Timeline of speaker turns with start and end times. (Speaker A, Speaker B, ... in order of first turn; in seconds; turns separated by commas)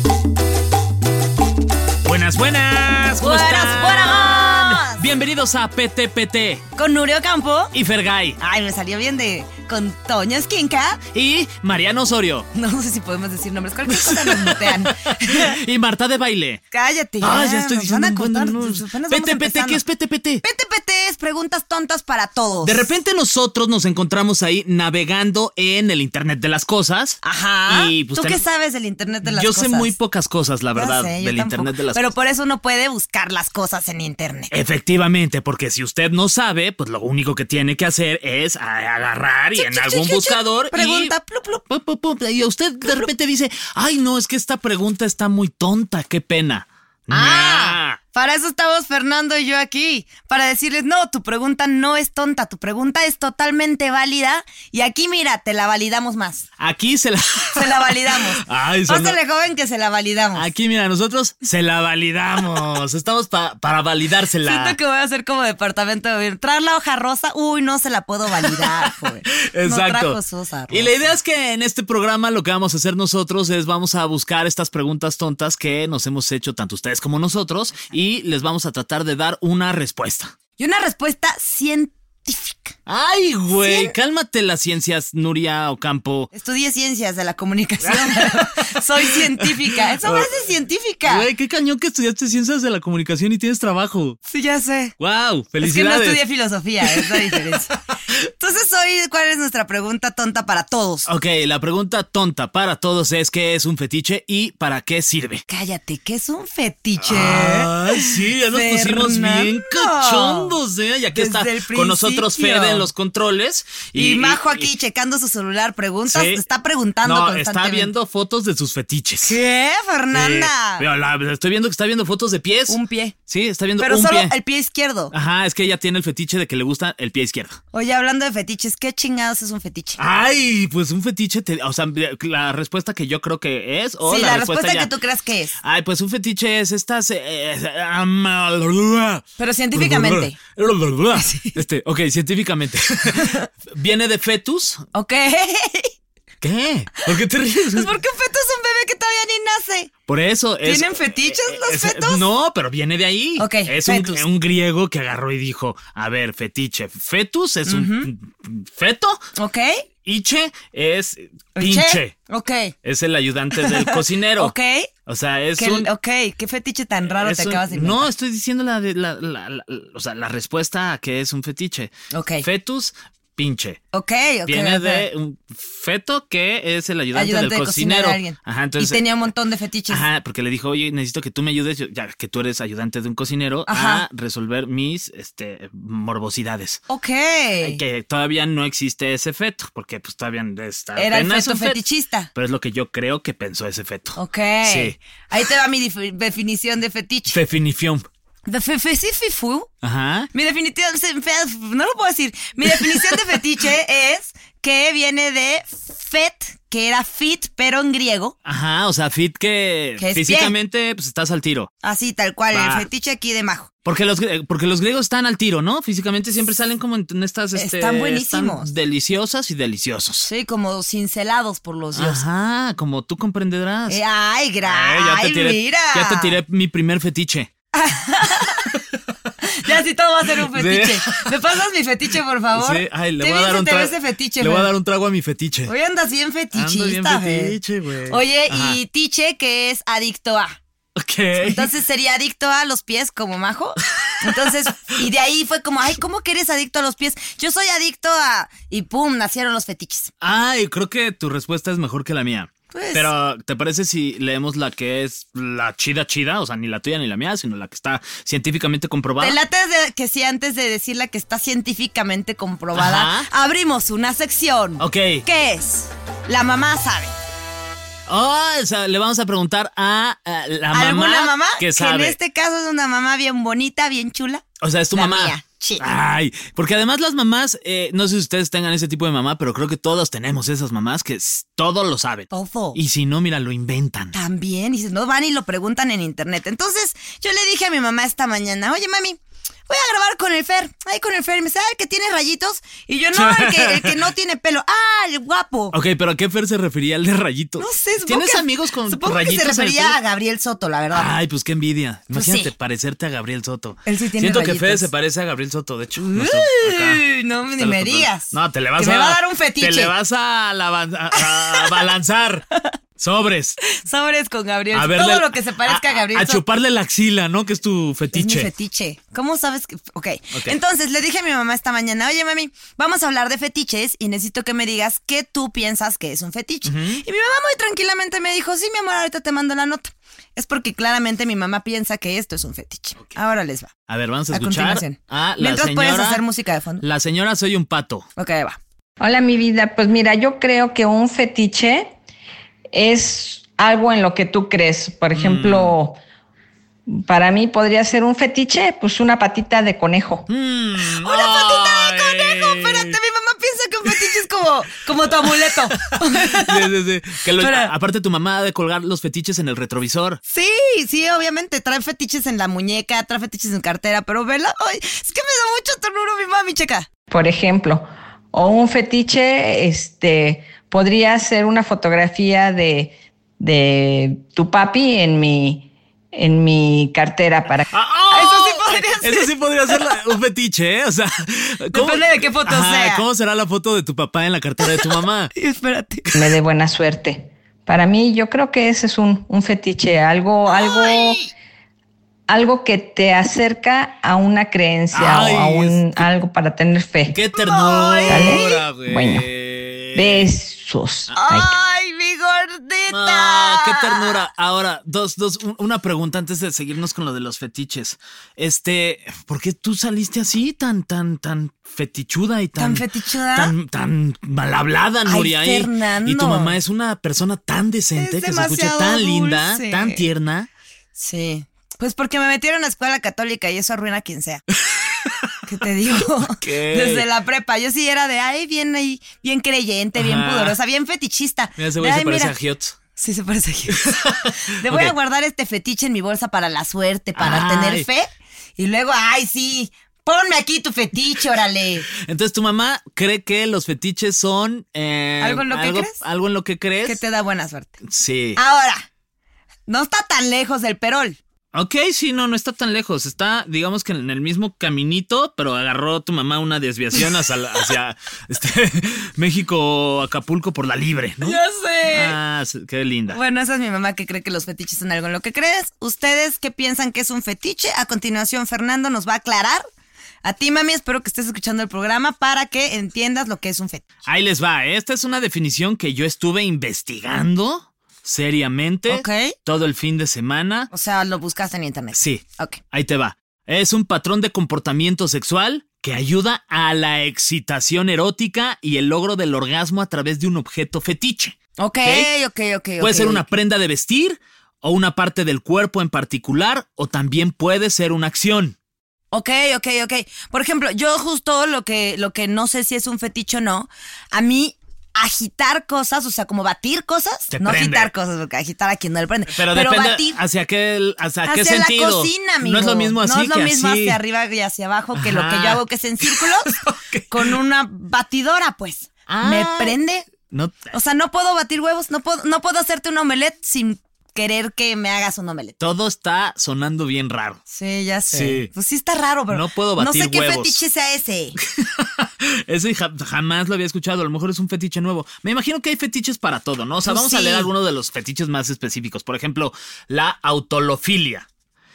Speaker A: 2.0-6.6, Speaker B: 3.2-5.0, Speaker B: 6.8-7.7, Speaker A: 7.7-8.4, Speaker B: 8.4-11.0, Speaker A: 11.1-12.5, Speaker B: 12.5-15.6, Speaker A: 13.9-16.6, Speaker B: 16.7-19.8, Speaker A: 17.2-20.4, Speaker B: 20.4-22.9, Speaker A: 22.6-28.4, Speaker B: 27.2-29.9, Speaker A: 29.3-32.1, Speaker B: 30.8-34.5, Speaker A: 34.5-41.1, Speaker B: 39.5-41.6, Speaker A: 41.7-48.0, Speaker B: 42.8-43.1, Speaker B: 47.1-56.5, Speaker A: 56.6-59.2, Speaker B: 57.5-60.5, Speaker A: 60.4-64.8, Speaker B: 64.4-70.9, Speaker A: 68.4-70.2, Speaker A: 70.7-80.4, Speaker B: 80.6-82.8, Speaker A: 82.9-86.3, Speaker B: 83.6-83.9, Speaker B: 86.3-91.3, Speaker A: 87.8-90.3, Speaker A: 91.1-94.2, Speaker B: 94.3-94.9, Speaker A: 95.0-96.2, Speaker B: 95.6-101.1, Speaker A: 96.8-97.4, Speaker A: 101.1-105.5, Speaker B: 105.5-110.5, Speaker A: 107.0-114.7, Speaker B: 111.1-112.9, Speaker B: 113.9-117.9, Speaker A: 116.1-116.4, Speaker A: 117.0-119.4, Speaker B: 119.2-120.8, Speaker A: 120.1-124.3, Speaker B: 122.7-123.2, Speaker B: 123.8-125.1, Speaker A: 125.1-127.6, Speaker B: 127.7-130.0, Speaker A: 130.0-134.9, Speaker B: 134.1-135.5, Speaker A: 135.6-144.8, Speaker B: 139.4-140.4, Speaker B: 141.2-141.6, Speaker B: 143.1-143.4, Speaker B: 144.9-145.9, Speaker A: 146.4-147.9, Speaker B: 147.8-149.9, Speaker A: 150.1-159.2, Speaker B: 150.6-152.2, Speaker B: 153.4-154.3, Speaker B: 157.7-158.1, Speaker B: 159.4-159.8, Speaker A: 160.0-162.2, Speaker B: 161.6-162.7, Speaker A: 162.8-164.5, Speaker B: 163.6-164.9, Speaker A: 165.1-165.9, Speaker B: 165.6-168.1, Speaker A: 167.1-171.9, Speaker B: 172.1-172.4, Speaker A: 172.4-173.8, Speaker B: 173.9-175.1, Speaker A: 174.5-179.3, Speaker B: 177.1-180.0, Speaker A: 179.9-186.8, Speaker B: 183.7-184.0, Speaker B: 186.9-187.8, Speaker A: 187.6-191.8, Speaker B: 191.0-192.3, Speaker A: 192.3-195.0, Speaker B: 194.2-197.4, Speaker A: 197.3-198.1, Speaker B: 198.5-199.7, Speaker A: 199.8-200.3, Speaker B: 200.3-208.3, Speaker A: 202.8-203.1, Speaker A: 208.4-211.7, Speaker B: 210.0-210.5, Speaker B: 211.8-213.7, Speaker A: 212.5-212.9, Speaker A: 213.9-220.3, Speaker B: 217.6-218.7, Speaker B: 220.2-222.2, Speaker A: 221.9-224.0, Speaker B: 223.9-226.4, Speaker A: 224.7-227.5, Speaker B: 227.7-228.7, Speaker B: 229.4-234.7, Speaker A: 230.4-231.3, Speaker A: 232.5-235.7, Speaker B: 235.7-237.6, Speaker A: 236.5-238.8, Speaker B: 238.1-240.6, Speaker A: 241.0-241.7, Speaker B: 241.4-250.1, Speaker A: 244.0-244.8, Speaker A: 250.2-259.4, Speaker B: 252.7-253.1, Speaker B: 259.2-267.1, Speaker A: 262.8-263.3, Speaker A: 264.8-265.2, Speaker A: 268.1-272.2, Speaker B: 270.7-275.9, Speaker A: 274.6-284.2, Speaker B: 282.3-282.8, Speaker B: 284.1-295.8, Speaker A: 293.1-294.0, Speaker A: 295.7-300.0, Speaker B: 297.6-301.1, Speaker A: 300.9-307.0, Speaker B: 302.1-302.5, Speaker B: 303.9-304.9, Speaker B: 306.0-309.9, Speaker A: 307.6-312.4, Speaker B: 311.1-311.7, Speaker A: 313.0-313.6, Speaker B: 313.6-316.4, Speaker A: 314.7-318.5, Speaker B: 318.1-333.7, Speaker A: 326.6-327.0, Speaker A: 333.9-336.2, Speaker B: 334.3-336.8, Speaker A: 336.8-338.1, Speaker B: 338.2-338.6, Speaker C: 339.0-341.9, Speaker C: 342.7-346.0, Speaker A: 345.1-345.8, Speaker C: 346.9-350.3, Speaker A: 350.3-352.9, Speaker B: 351.0-356.7, Speaker A: 355.0-360.2, Speaker B: 357.4-357.7, Speaker B: 360.3-366.9, Speaker C: 367.1-377.7, Speaker A: 377.7-385.3, Speaker B: 378.1-380.0, Speaker B: 381.7-383.0, Speaker B: 384.6-386.1, Speaker C: 386.1-391.2, Speaker B: 390.5-391.3, Speaker C: 392.3-397.2, Speaker A: 394.9-396.0, Speaker A: 397.1-400.3, Speaker B: 397.4-398.5, Speaker C: 398.1-399.3, Speaker C: 399.9-401.6, Speaker B: 401.1-404.2, Speaker A: 402.9-420.5, Speaker B: 412.6-413.5, Speaker B: 415.1-416.6, Speaker B: 418.0-420.0, Speaker B: 421.0-424.4, Speaker A: 424.5-425.4, Speaker B: 425.5-432.3, Speaker A: 426.0-427.1, Speaker A: 430.0-430.6, Speaker A: 431.6-432.8, Speaker B: 433.0-433.8, Speaker A: 433.7-434.9, Speaker B: 434.6-441.9, Speaker A: 437.2-437.9, Speaker A: 442.0-447.0, Speaker B: 445.2-446.0, Speaker B: 446.8-447.8, Speaker A: 447.9-448.4, Speaker B: 448.4-448.9, Speaker B: 449.7-451.2, Speaker A: 451.5-461.4, Speaker B: 461.2-462.2, Speaker A: 461.9-463.2, Speaker B: 463.1-469.6, Speaker B: 470.2-473.9, Speaker A: 474.1-480.7, Speaker B: 478.9-479.4, Speaker B: 480.7-482.6, Speaker A: 481.9-492.1, Speaker B: 491.6-493.3, Speaker A: 492.8-498.6, Speaker B: 499.1-510.2, Speaker A: 507.3-507.9, Speaker A: 509.3-514.0, Speaker B: 511.2-516.5, Speaker A: 514.9-517.4, Speaker B: 517.1-520.1, Speaker A: 519.1-519.8, Speaker A: 520.3-520.8, Speaker B: 520.7-525.6, Speaker A: 525.6-527.4, Speaker B: 527.5-531.4, Speaker A: 528.1-528.5, Speaker A: 529.3-530.6, Speaker A: 531.4-541.3, Speaker B: 536.9-537.5